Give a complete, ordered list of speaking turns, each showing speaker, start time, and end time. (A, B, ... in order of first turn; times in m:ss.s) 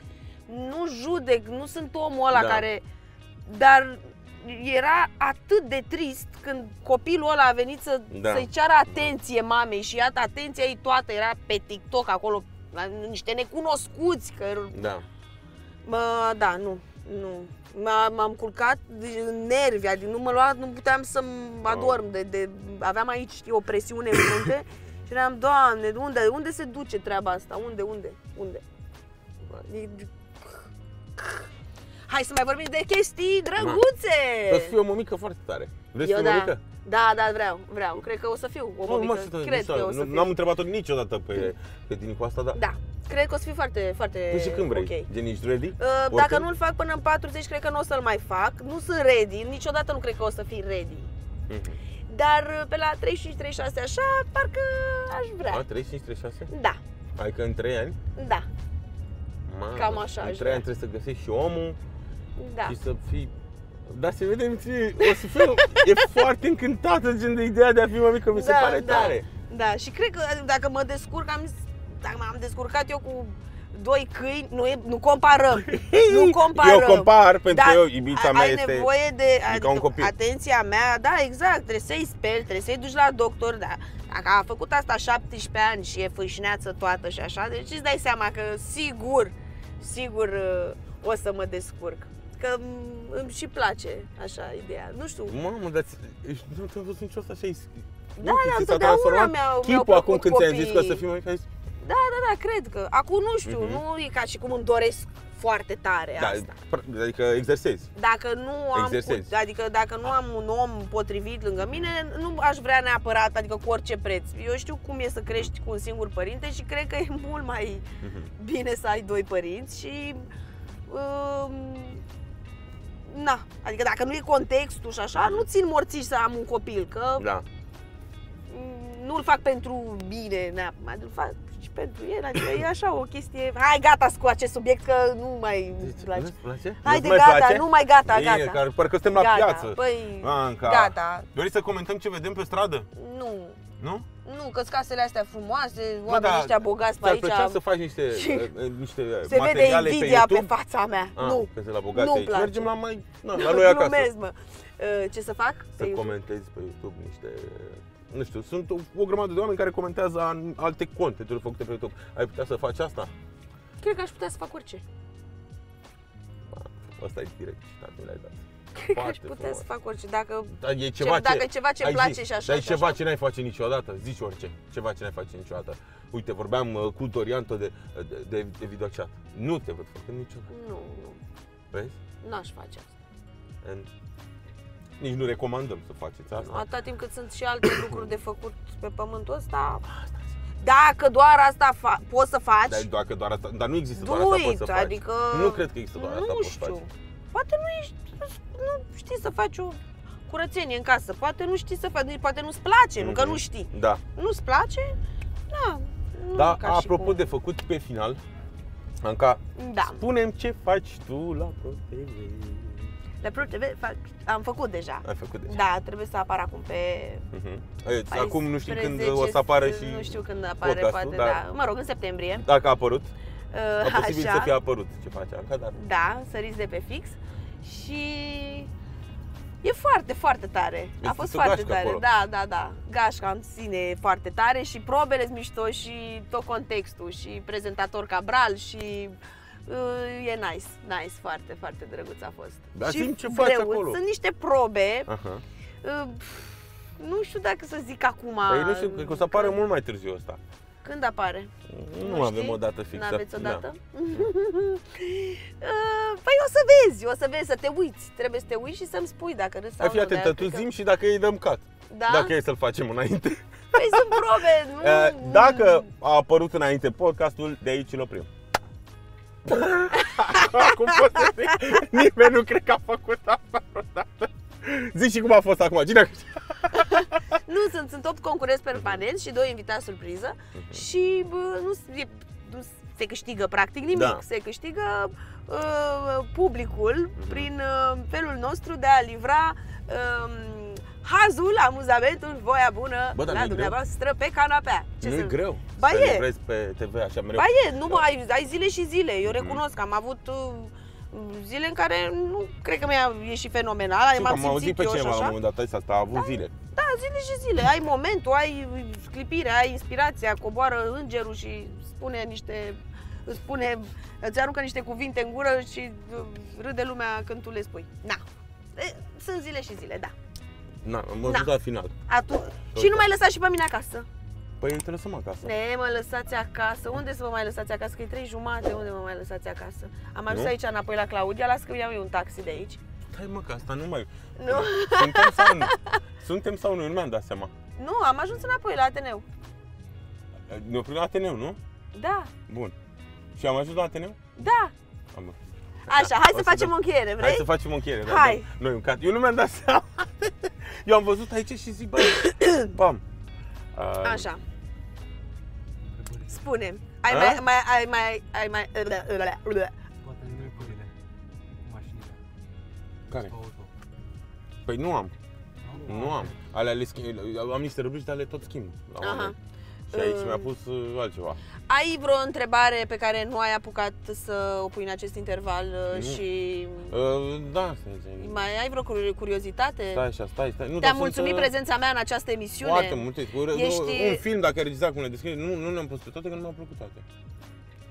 0:00.5-0:02.8 A
0:02.3-0:02.6 B
0:03.5-0:14.9 A
0:08.1-0:09.1 B
0:14.7-0:15.0 B
0:15.8-0:28.6 A
0:21.7-0:22.0 B
0:29.7-0:30.6 A
0:31.2-0:31.5 A
0:32.1-0:34.7 A
0:34.5-0:36.6 B
0:36.0-0:40.4 A
0:38.9-0:42.6 B
0:42.6-0:45.1 A
0:44.3-0:46.5 B
0:45.8-0:51.1 A
0:51.5-0:51.8 B
0:52.1-0:55.6 A
0:55.5-0:56.5 B
0:56.5-0:56.8 A
0:57.2-0:58.0 B
0:58.2-0:58.5 A
0:59.5-1:01.8 B
0:59.8-1:00.6 A
1:02.4-1:02.8 A
1:02.7-1:03.3 B
1:03.9-1:09.3 B
1:05.0-1:06.0 A
1:08.3-1:35.4 A
1:15.6-1:18.9 B
1:19.4-1:20.1 B
1:35.3-1:41.5 B
1:38.2-1:41.0 A
1:41.8-1:46.6 A
1:43.5-1:43.8 B
1:46.2-1:47.9 B
1:48.0-1:57.8 A
1:48.8-1:49.3 B
1:51.6-1:51.9 B
1:58.0-1:58.3 B
1:58.4-2:00.3 A
2:00.9-2:02.0 A
2:03.1-2:07.3 A
2:05.2-2:05.5 B
2:07.2-2:07.4 B
2:08.5-2:21.3 A
2:15.8-2:22.9 B
2:23.0-2:23.6 A
2:23.8-2:24.1 B
2:24.2-2:27.6 A
2:26.1-2:30.5 B
2:28.1-2:28.5 A
2:29.2-2:32.7 A
2:31.2-2:34.1 B
2:33.3-2:36.2 A
2:35.8-2:43.1 B
2:43.8-2:44.8 A
2:46.4-2:49.7 B
2:48.8-2:53.0 A
2:50.6-3:00.5 B
3:00.5-3:01.2 A
3:01.7-3:02.0 B
3:02.2-3:03.0 A
3:03.6-3:03.9 B
3:05.0-3:06.7 B
3:06.3-3:09.8 A
3:07.6-3:08.0 B
3:09.9-3:10.2 B
3:10.6-3:12.9 A
3:12.7-3:16.8 B
3:14.0-3:25.0 A
3:23.0-3:24.0 B
3:25.5-3:27.2 A
3:26.4-3:28.2 B
3:29.0-3:33.0 B
3:29.6-3:30.0 A
3:33.2-3:37.2 A
3:35.0-3:35.6 B
3:37.3-3:41.4 B
3:38.1-3:42.4 A
3:42.4-3:43.1 B
3:43.5-3:44.6 A
3:43.8-3:45.8 B
3:45.8-3:48.7 A
3:49.6-4:05.1 A
3:51.0-3:52.0 B
4:02.7-4:04.0 B
4:05.1-4:05.4 B
4:05.8-4:09.6 A
4:08.5-4:10.4 B
4:10.8-4:20.7 A
4:11.7-4:13.6 B
4:19.8-4:28.3 B
4:21.9-4:22.3 A
4:23.7-4:25.9 A
4:29.4-4:37.1 B
4:29.9-4:31.3 A
4:36.7-4:56.3 A
4:40.6-4:40.8 B
4:43.9-4:44.2 B
4:47.2-4:47.5 B
4:53.1-4:53.8 B
4:55.0-4:58.0 B
4:57.4-5:05.4 A
4:59.2-4:59.6 B
5:04.2-5:06.5 B
5:06.1-5:18.2 A
5:18.8-5:20.1 A
5:20.8-5:22.0 B
5:22.1-5:24.1 A
5:22.7-5:23.1 B
5:24.6-5:25.5 B
5:25.4-5:32.8 A
5:33.1-5:37.5 B
5:34.4-5:36.0 A
5:37.8-5:39.2 A
5:40.5-5:41.6 B
5:41.9-5:42.3 A
5:42.5-5:42.8 B
5:43.4-5:44.2 B
5:44.4-5:44.7 A
5:45.1-5:53.0 B
5:45.9-5:47.5 A
5:48.0-5:48.5 A
5:52.0-5:52.7 A
5:53.7-5:54.3 B
5:54.0-5:54.4 A
5:55.9-5:56.5 C
5:56.3-5:59.7 A
5:57.1-5:57.4 B
6:00.0-6:00.9 C
6:01.6-6:02.2 C
6:03.1-6:03.7 C
6:04.7-6:05.1 B
6:05.6-6:06.4 C
6:05.8-6:09.4 B
6:09.0-6:09.4 A
6:09.9-6:11.4 B
6:09.9-6:10.5 A
6:11.7-6:16.9 A
6:15.9-6:16.2 B
6:16.9-6:18.4 B
6:18.2-6:20.0 A
6:19.9-6:21.5 B
6:20.8-6:24.2 A
6:22.6-6:27.0 B